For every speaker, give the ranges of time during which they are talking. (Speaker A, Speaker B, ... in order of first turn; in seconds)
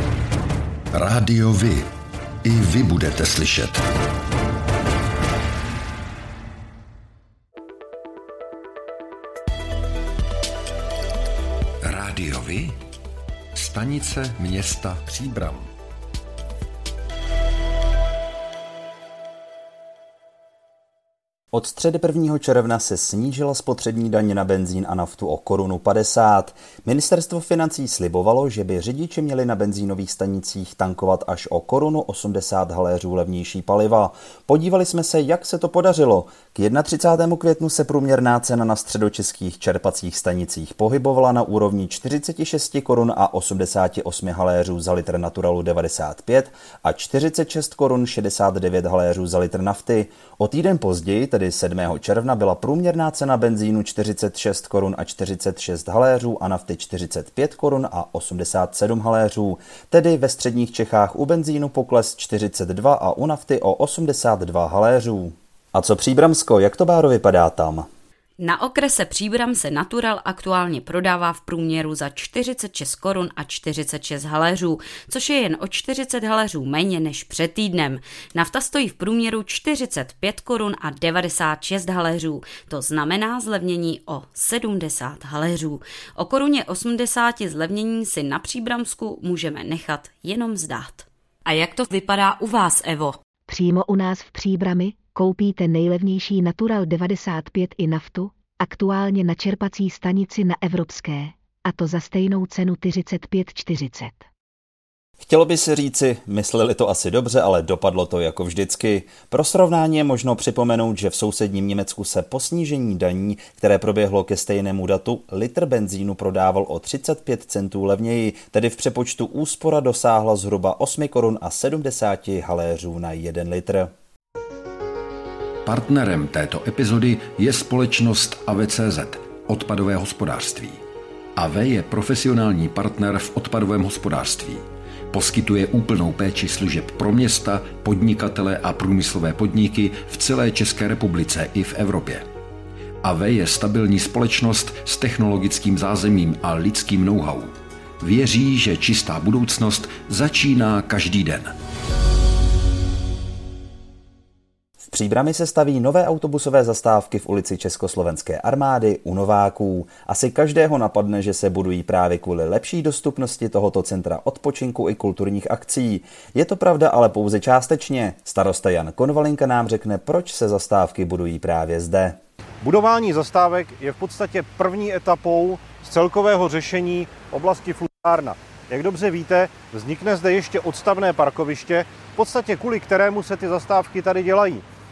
Speaker A: 0.9-1.9, 2.4-3.9, 11.8-12.8, 13.5-15.7, 125.7-130.8, 131.4-142.3, 143.0-151.5
Speaker B: 21.5-67.9, 105.2-123.9, 154.8-172.2
Speaker C: 68.4-93.2
Speaker D: 93.5-104.3
Speaker E: 172.6-184.6